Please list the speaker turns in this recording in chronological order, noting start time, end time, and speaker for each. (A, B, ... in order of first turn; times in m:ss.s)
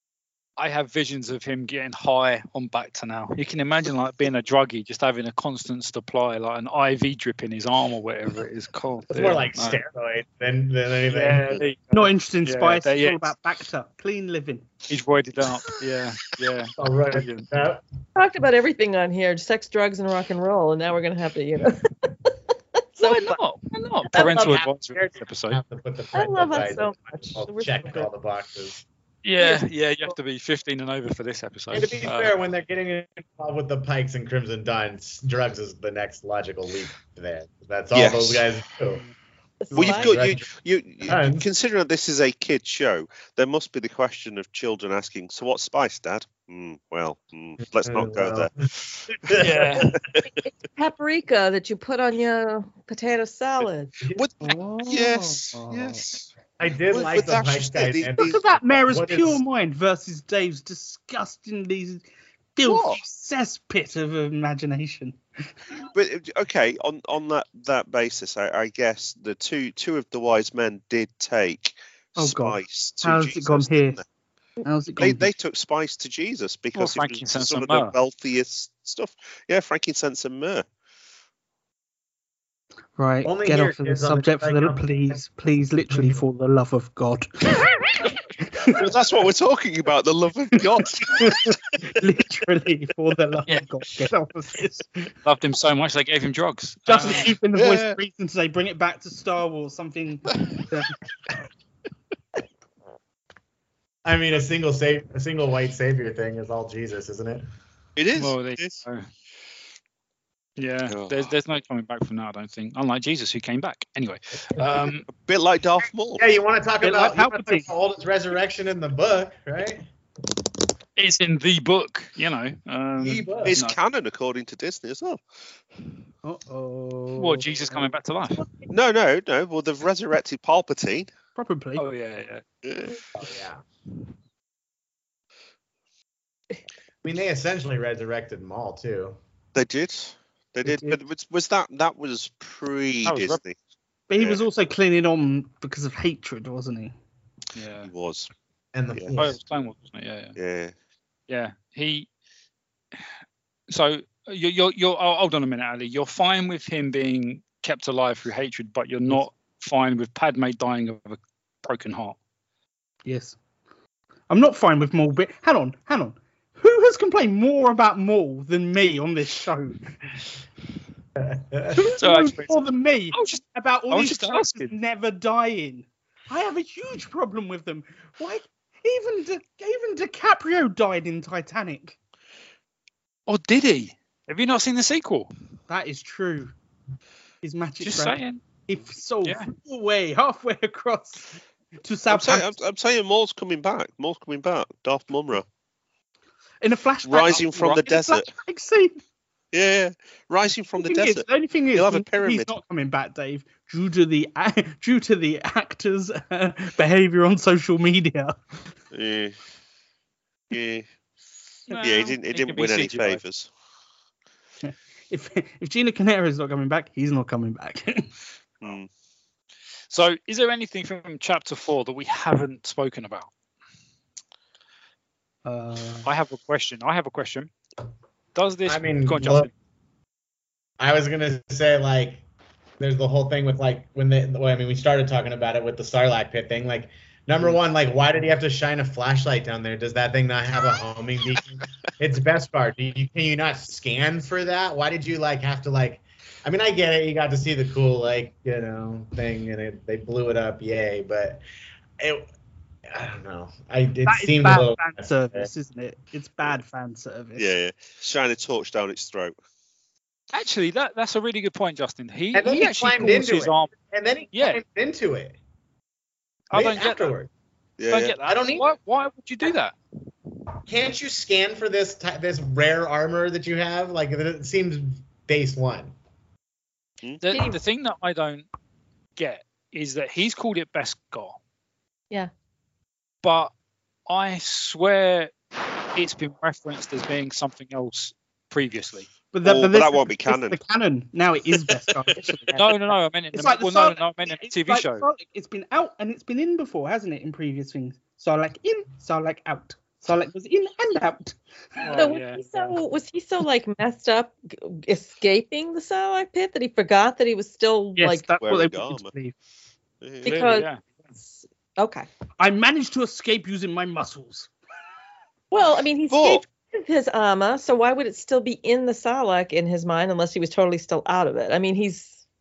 0:00.6-0:09.8 A
0:09.1-0:11.6 B
0:11.1-0:13.2 A
0:11.9-0:14.7 C
0:14.9-0:17.5 A
0:16.8-0:17.8 B
0:18.2-0:22.3 D
0:23.0-0:25.6 A
0:23.1-0:23.4 D
0:24.1-0:28.8 B
0:24.1-0:24.4 D
0:26.1-0:28.1 D
0:29.2-0:32.3 A
0:31.7-0:39.0 B
0:37.9-0:38.5 E
0:39.6-0:40.2 D
0:39.7-0:40.5 B
0:39.7-0:48.5 E
0:41.1-0:41.4 B
0:47.9-0:50.0 B
0:49.3-0:50.0 A
0:50.4-0:53.9 D
0:54.1-0:56.3 E
0:54.4-0:56.0 C
0:56.6-0:58.4 B
0:56.9-0:58.6 E
0:58.2-1:02.0 C
0:58.9-0:59.4 B
1:02.6-1:05.2 C
1:02.6-1:03.0 E
1:05.9-1:14.0 E
1:12.2-1:14.0 C
1:14.6-1:15.3 C
1:15.0-1:20.7 E
1:16.8-1:17.9 A
1:23.0-1:28.8 C
1:23.2-1:25.2 B
1:28.7-1:31.6 E
1:31.1-1:35.1 C
1:35.2-1:37.3 A
1:36.9-1:40.9 C
1:37.6-1:38.0 E
1:40.3-1:40.7 E
1:44.0-1:47.4 B
1:48.0-1:48.8 E
1:48.1-1:49.1 A
1:50.6-1:55.1 A
1:50.9-1:51.3 E
1:54.6-1:54.9 B
1:55.1-1:56.2 E
1:56.2-1:59.8 B
1:56.8-1:57.7 C
2:01.0-2:03.8 A
2:03.0-2:03.6 B
2:03.5-2:05.2 E
2:06.2-2:07.9 C
2:07.2-2:08.4 A
2:08.7-2:11.1 E
2:11.4-2:11.8 C
2:11.8-2:12.4 A
2:12.6-2:13.0 E
2:13.2-2:13.6 B
2:17.0-2:19.2 B
2:19.6-2:23.6 E
2:20.6-2:21.0 C
2:23.1-2:23.4 A
2:24.1-2:27.0 C
2:27.5-2:27.9 A
2:27.9-2:28.3 E
2:28.7-2:29.4 B
2:29.2-2:30.4 A
2:30.4-2:30.7 E
2:31.3-2:32.1 A
2:33.7-2:42.2 A
2:43.0-2:43.4 C
2:44.3-2:49.9 C
2:51.2-2:51.8 B
2:51.8-3:02.0 C
2:52.0-2:54.7 A
3:03.3-3:05.3 A
3:05.7-3:06.5 C
3:07.4-3:12.5 C
3:07.8-3:08.4 A
3:12.1-3:15.4 E
3:16.6-3:19.0 C
3:17.0-3:18.3 E
3:19.5-3:22.5 E
3:20.8-3:28.6 C
3:28.9-3:29.4 E
3:30.5-3:30.9 E
3:31.7-3:33.2 A
3:31.8-3:33.5 E
3:34.6-3:38.1 C
3:38.6-3:38.9 E
3:39.9-3:43.3 A
3:45.4-3:46.1 C
3:46.0-3:47.5 A
3:48.4-3:49.5 A
3:48.7-3:49.5 B
3:50.8-3:52.2 B
3:52.8-4:11.4 B
4:12.0-4:12.3 B
4:12.9-4:15.5 B
4:14.1-4:17.5 C
4:17.4-4:19.4 E
4:20.3-4:23.7 A
4:22.3-4:25.4 B
4:24.3-4:24.6 A
4:26.5-4:27.1 A
4:26.5-4:27.3 B
4:27.8-4:28.2 E
4:27.9-4:29.8 A
4:28.2-4:28.7 B
4:30.7-4:35.9 B
4:37.2-4:38.5 A
4:37.3-4:37.6 D
4:39.2-4:41.4 A
4:43.2-4:43.5 A
4:44.1-4:45.4 A
4:45.9-4:49.1 A
4:49.3-4:52.6 C
4:49.4-4:50.6 E
4:52.2-4:52.6 D
4:52.5-4:55.1 A
4:53.3-5:02.1 C
5:01.8-5:02.7 A
5:01.9-5:08.2 D
5:08.0-5:09.3 C
5:08.4-5:09.1 E
5:10.0-5:10.5 E
5:10.2-5:12.1 D
5:10.2-5:10.8 A
5:12.4-5:14.5 C
5:15.5-5:22.2 D
5:16.1-5:16.4 E